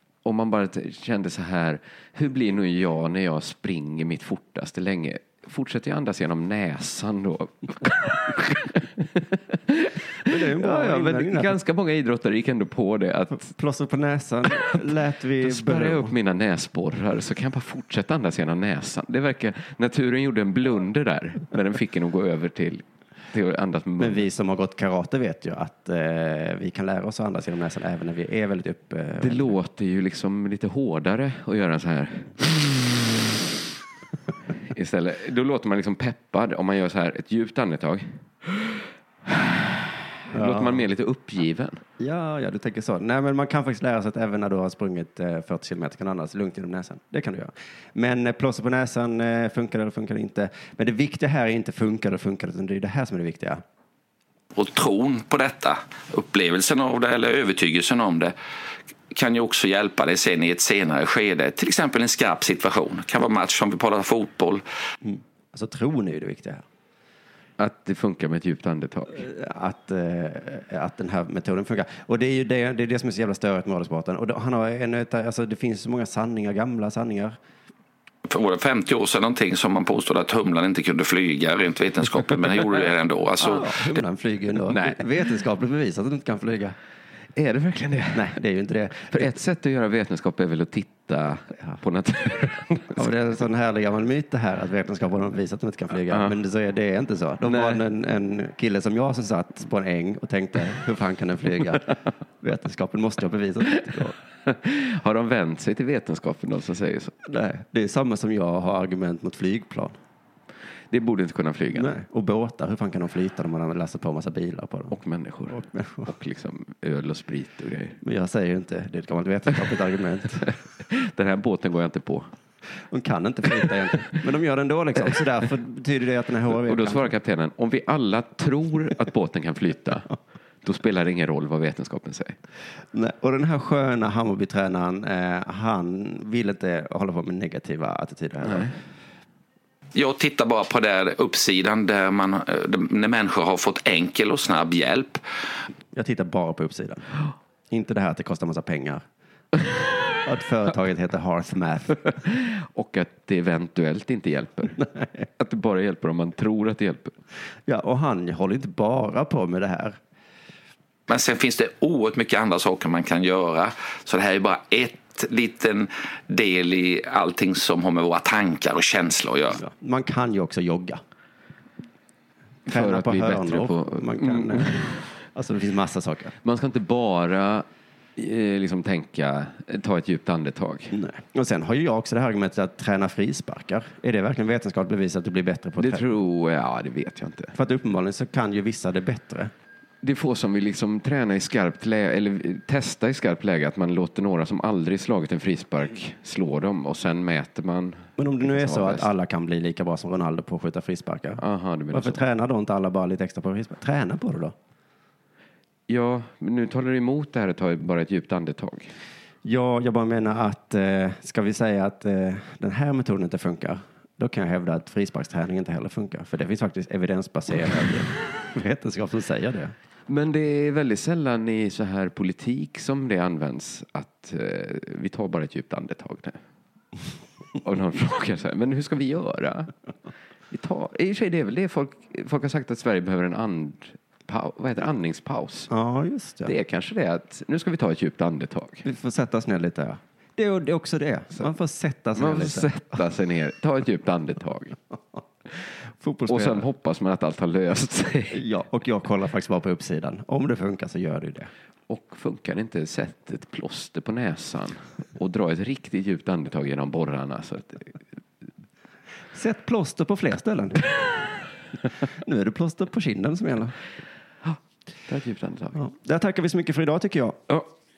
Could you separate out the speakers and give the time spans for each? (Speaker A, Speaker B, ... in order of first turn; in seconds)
Speaker A: 0.2-13.5, 14.5-14.8, 15.4-24.3, 29.2-33.4, 34.6-41.8, 67.6-69.2, 84.6-85.0, 87.3-88.3, 89.1-93.1, 96.1-96.3, 97.4-97.8, 104.4-107.2, 110.9-112.0, 114.9-118.0, 120.5-122.3, 126.5-130.1, 130.6-132.4, 138.4-138.8, 152.3-154.8, 155.4-157.2, 172.7-175.0, 176.4-180.9, 185.8-187.6, 190.0-199.1, 201.4-202.2, 205.9-208.9, 220.1-226.4, 227.6-229.7, 230.5-235.7, 236.4-238.8, 242.1-244.8, 246.3-248.4, 251.9-257.9, 265.1-265.8
Speaker B: 10.2-11.5, 13.3-16.1, 24.0-29.6, 40.3-40.8, 42.0-53.6, 65.0-66.6, 69.2-77.4, 83.4-86.8, 88.1-89.3, 92.9-104.2, 107.2-110.0, 111.7-115.0, 115.5-116.1, 118.0-120.5, 122.9-127.1, 132.9-138.7, 145.9-147.0, 147.7-149.0, 150.2-152.2, 157.7-160.0, 169.6-171.0, 172.7-176.3, 180.9-186.1, 187.5-189.5, 198.2-204.5, 209.4-219.7, 235.7-236.5, 238.8-242.8, 246.0-246.7, 248.3-251.5, 259.3-260.8, 262.2-263.7, 265.7-267.4
Speaker C: 54.5-58.3, 59.1-64.6, 78.3-83.7, 139.9-145.2, 161.1-169.6